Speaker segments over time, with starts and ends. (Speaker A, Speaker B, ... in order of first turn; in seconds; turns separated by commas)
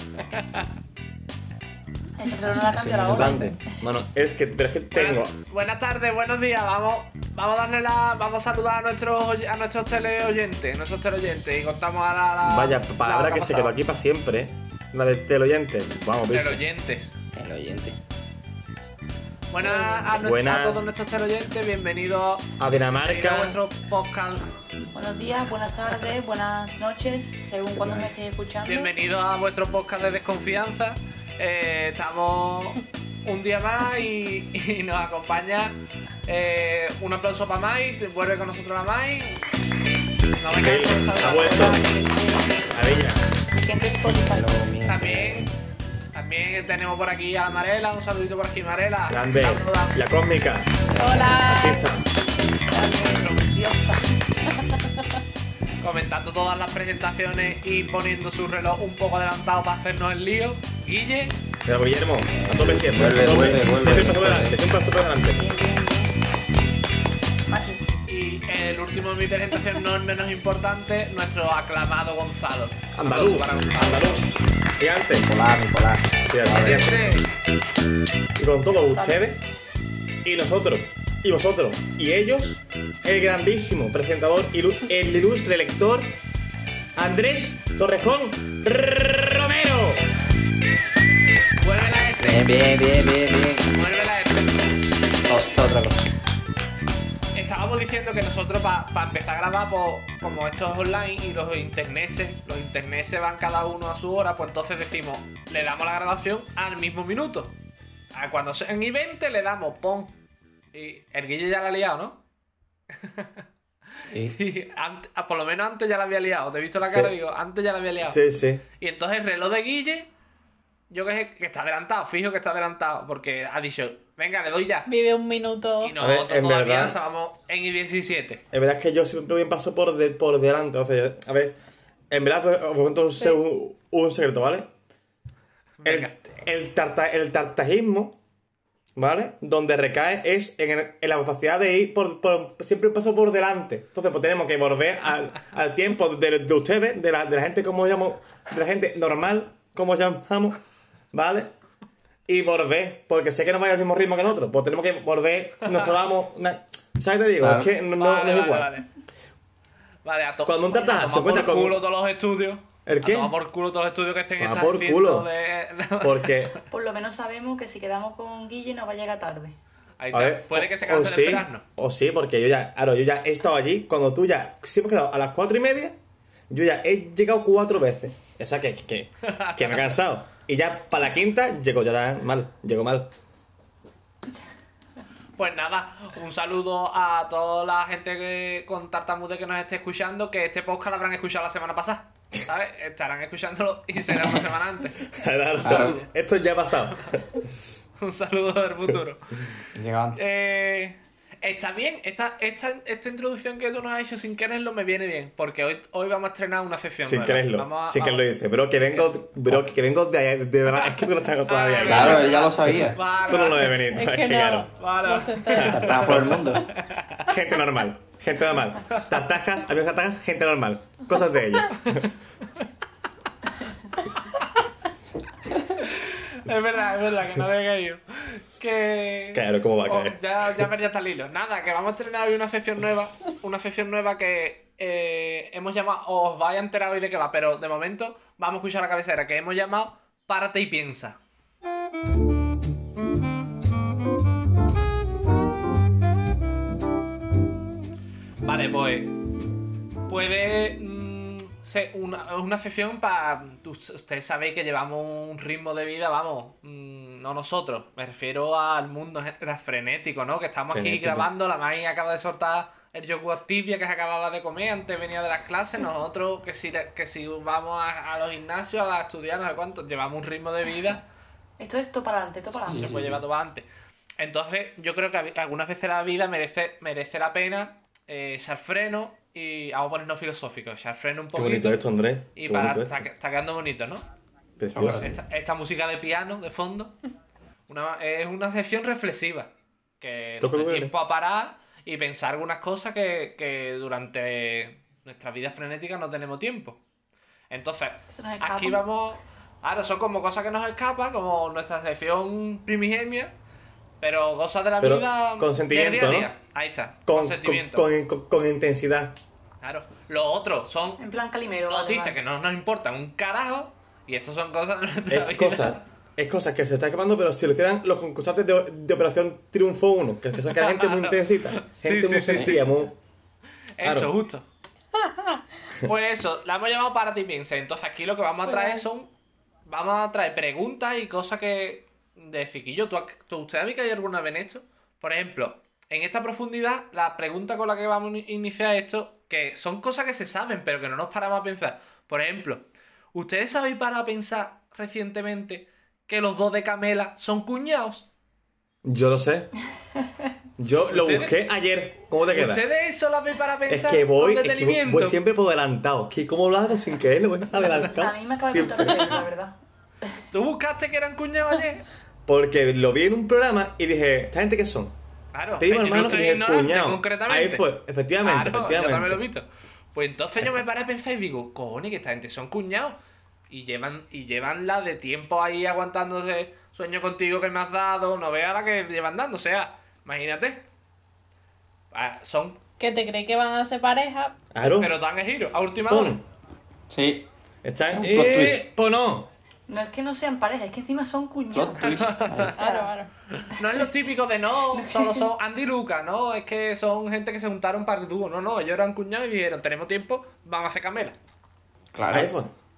Speaker A: 0.2-0.7, Speaker B: 2.2-3.7, Speaker C: 2.5-3.5, Speaker D: 3.1-5.3, Speaker A: 4.9-13.8, Speaker D: 12.4-16.6, Speaker A: 16.3-17.1, Speaker C: 17.3-18.0, Speaker A: 19.5-24.5, Speaker D: 20.1-20.9, Speaker D: 22.6-23.6, Speaker B: 24.9-28.9, Speaker C: 27.7-28.1, Speaker A: 28.7-39.5, Speaker A: 40.4-41.8, Speaker D: 40.5-41.8, Speaker B: 41.3-42.9, Speaker D: 42.7-43.2, Speaker B: 43.5-44.5, Speaker C: 44.0-45.5, Speaker A: 44.9-45.5, Speaker A: 46.1-50.0, Speaker D: 49.1-50.8, Speaker C: 50.9-51.4, Speaker E: 50.9-51.9, Speaker D: 51.4-52.1, Speaker B: 52.7-54.1, Speaker A: 55.8-61.4, Speaker D: 61.6-65.4, Speaker C: 62.3-64.6, Speaker B: 65.3-66.1, Speaker B: 67.5-67.8, Speaker A: 68.1-74.2, Speaker D: 73.0-74.2, Speaker D: 74.8-75.3, Speaker C: 75.2-76.9, Speaker D: 76.3-77.0, Speaker A: 76.5-77.2, Speaker D: 78.4-79.4, Speaker B: 78.9-79.2, Speaker D: 80.2-86.1, Speaker D: 87.0-90.0, Speaker A: 91.6-92.6, Speaker C: 92.2-93.7, Speaker A: 93.7-94.7, Speaker C: 95.2-96.0, Speaker A: 97.3-107.5, Speaker A: 108.1-110.2, Speaker A: 110.7-112.2, Speaker A: 113.0-113.5, Speaker C: 114.1-114.4, Speaker A: 114.2-118.2, Speaker D: 116.9-117.1, Speaker D: 118.0-118.6, Speaker A: 118.8-120.1, Speaker A: 120.9-124.9, Speaker E: 124.9-125.9, Speaker A: 125.8-128.4, Speaker D: 126.0-127.0, Speaker D: 128.5-131.6, Speaker D: 132.1-134.7, Speaker A: 135.8-136.1, Speaker D: 135.8-138.2, Speaker D: 138.9-150.6, Speaker D: 151.1-151.5, Speaker D: 152.3-158.7, Speaker C: 157.4-157.7, Speaker A: 158.0-158.9, Speaker A: 160.1-166.6, Speaker D: 160.4-161.8, Speaker D: 162.9-163.3, Speaker D: 164.4-165.3, Speaker D: 166.0-166.6, Speaker B: 166.7-169.6, Speaker A: 170.0-171.6, Speaker D: 170.1-175.9, Speaker D: 176.5-183.1, Speaker A: 179.2-180.0, Speaker A: 185.4-195.1, Speaker D: 195.0-197.4, Speaker C: 195.6-196.0, Speaker A: 195.6-196.1, Speaker A: 198.0-199.2, Speaker C: 199.7-200.2, Speaker A: 200.2-208.3, Speaker D: 207.1-214.7, Speaker A: 211.4-213.8, Speaker C: 211.8-213.0, Speaker E: 213.9-216.0, Speaker A: 214.8-217.2, Speaker D: 215.5-216.5, Speaker C: 215.5-216.7, Speaker D: 217.2-222.1, Speaker A: 225.7-241.2, Speaker D: 229.3-230.7, Speaker A: 248.4-249.1, Speaker A: 250.1-271.0, Speaker D: 260.7-261.3, Speaker B: 271.6-272.9, Speaker C: 272.7-273.2, Speaker A: 272.7-273.7, Speaker A: 274.2-281.8, Speaker D: 281.3-283.1, Speaker A: 282.3-284.0, Speaker D: 284.6-285.1, Speaker C: 284.7-285.1, Speaker A: 285.0-286.9, Speaker A: 287.7-296.8, Speaker D: 290.4-290.9, Speaker A: 297.5-303.3, Speaker B: 298.1-298.8, Speaker A: 304.0-307.9, Speaker D: 304.8-306.3, Speaker D: 307.1-309.2, Speaker A: 309.6-311.0, Speaker B: 311.0-312.2, Speaker A: 311.7-315.8, Speaker D: 315.1-322.9, Speaker A: 320.5-322.7, Speaker A: 323.8-324.5, Speaker D: 323.8-324.1, Speaker A: 325.8-329.1, Speaker E: 328.4-328.9, Speaker A: 329.6-348.1, Speaker D: 348.8-349.5, Speaker D: 350.6-352.6, Speaker A: 350.9-351.4, Speaker A: 352.3-355.2, Speaker D: 353.7-359.2, Speaker B: 357.9-359.5, Speaker A: 360.3-361.9, Speaker D: 362.2-364.9, Speaker A: 365.3-367.7, Speaker D: 365.6-369.2, Speaker A: 368.2-373.0, Speaker A: 373.5-380.7, Speaker A: 381.9-382.6, Speaker E: 382.8-384.4, Speaker D: 384.5-384.9, Speaker A: 384.6-386.2, Speaker D: 385.9-386.2, Speaker C: 386.9-387.3, Speaker D: 387.6-389.3, Speaker C: 387.9-388.7, Speaker B: 389.7-392.9, Speaker C: 391.5-392.6, Speaker A: 391.9-392.5, Speaker E: 392.5-393.1, Speaker A: 393.4-401.1, Speaker B: 394.8-395.2, Speaker C: 401.9-402.3, Speaker D: 402.1-402.5